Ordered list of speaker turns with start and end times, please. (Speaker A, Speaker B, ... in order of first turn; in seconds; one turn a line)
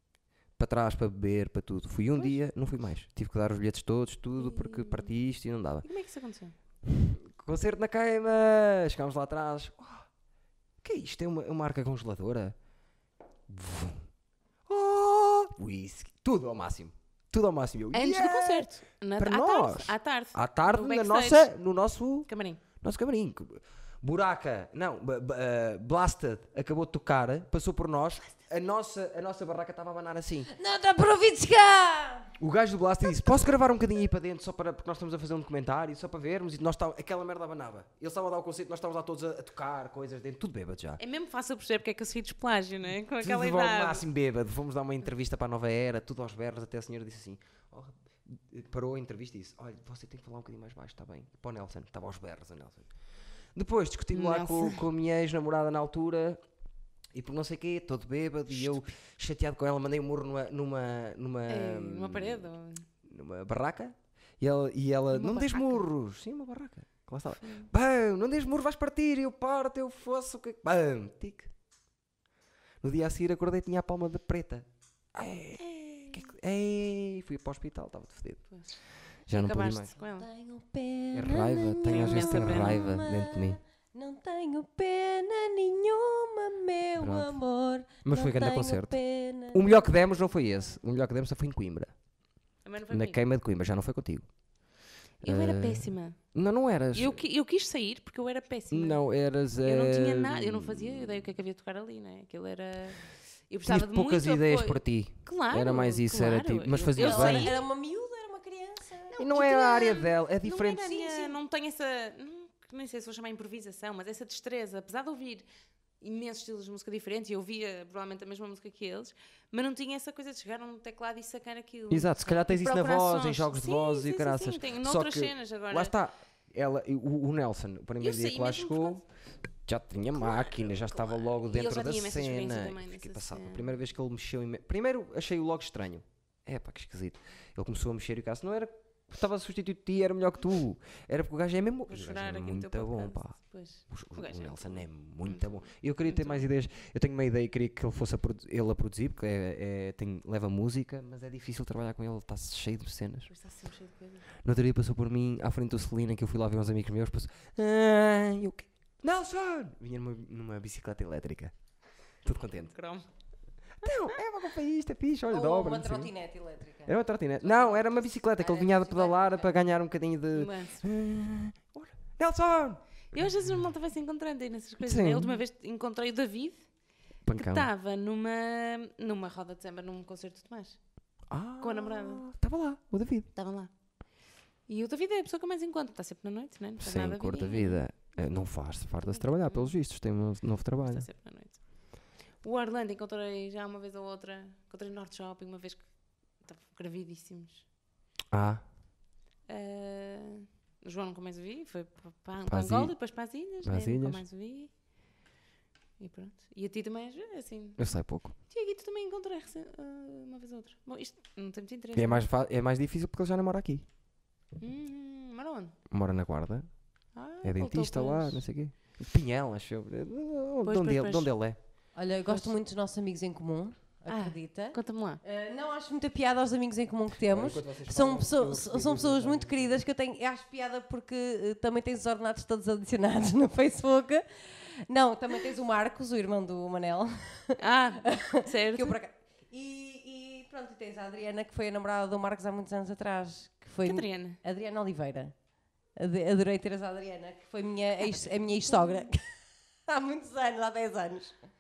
Speaker A: 0.6-5.9
Speaker B: 4.4-5.1
Speaker B: 5.8-6.5
Speaker A: 6.9-10.1
Speaker A: 10.8-12.6
Speaker A: 13.5-14.1
Speaker A: 14.7-22.3
Speaker B: 17.9-21.5
Speaker B: 22.3-22.6
Speaker A: 22.8-30.5
Speaker C: 30.5-32.4
Speaker A: 32.4-41.0
Speaker B: 41.0-44.0
Speaker A: 43.2-52.9
Speaker A: 53.6-56.4
Speaker B: 54.1-54.8
Speaker A: 57.1-62.5
Speaker B: 58.5-58.8
Speaker B: 61.5-62.9
Speaker A: 63.0-71.5
Speaker B: 65.1-65.9
Speaker B: 67.4-67.7
Speaker A: 72.8-78.5
Speaker B: 78.5-80.3
Speaker A: 79.3-79.9
Speaker C: 80.1-90.0
Speaker A: 81.1-83.6
Speaker B: 81.9-82.9
Speaker A: 87.0-87.4
Speaker A: 88.0-89.0
Speaker A: 89.5-91.9
Speaker B: 92.7-93.2
Speaker A: 92.9-94.3
Speaker B: 95.2-96.2
Speaker A: 95.2-97.2
Speaker B: 96.9-99.0
Speaker A: 98.7-101.3
Speaker B: 99.5-107.6
Speaker A: 103.7-107.5
Speaker C: 107.0-109.2
Speaker B: 109.1-115.5
Speaker A: 109.2-110.9
Speaker C: 110.8-111.4
Speaker B: 116.0-125.9
Speaker A: 121.9-129.0
Speaker B: 128.0-129.0
Speaker A: 129.7-143.4
Speaker B: 130.2-133.7
Speaker B: 141.9-145.5
Speaker A: 143.9-153.3
Speaker B: 146.1-146.4
Speaker B: 153.3-154.3
Speaker A: 154.4-161.5
Speaker A: 162.2-162.7
Speaker B: 162.5-163.1
Speaker A: 163.8-166.1
Speaker C: 165.3-169.5
Speaker A: 166.8-172.8
Speaker B: 170.3-170.8
Speaker B: 173.1-176.7
Speaker A: 174.8-175.4
Speaker A: 177.3-177.7
Speaker B: 177.3-180.8
Speaker A: 181.3-183.3
Speaker B: 181.6-182.2
Speaker B: 183.3-183.7
Speaker B: 184.7-188.1
Speaker A: 186.8-191.1
Speaker B: 189.0-189.7
Speaker B: 190.8-191.6
Speaker B: 192.4-195.8
Speaker B: 196.4-197.6
Speaker A: 198.3-198.6
Speaker B: 199.5-204.7
Speaker A: 202.5-202.9
Speaker A: 203.6-204.2
Speaker B: 206.0-207.8
Speaker A: 207.8-208.3
Speaker B: 208.5-212.3
Speaker A: 211.9-213.8
Speaker B: 214.6-215.7
Speaker A: 215.9-216.7
Speaker B: 217.2-218.4
Speaker A: 217.4-221.6
Speaker B: 220.7-221.3
Speaker C: 221.9-245.3
Speaker B: 222.3-222.5
Speaker B: 224.1-225.2
Speaker A: 227.3-229.8
Speaker B: 237.6-239.0
Speaker B: 243.8-244.4
Speaker C: 246.0-251.3
Speaker B: 248.8-249.0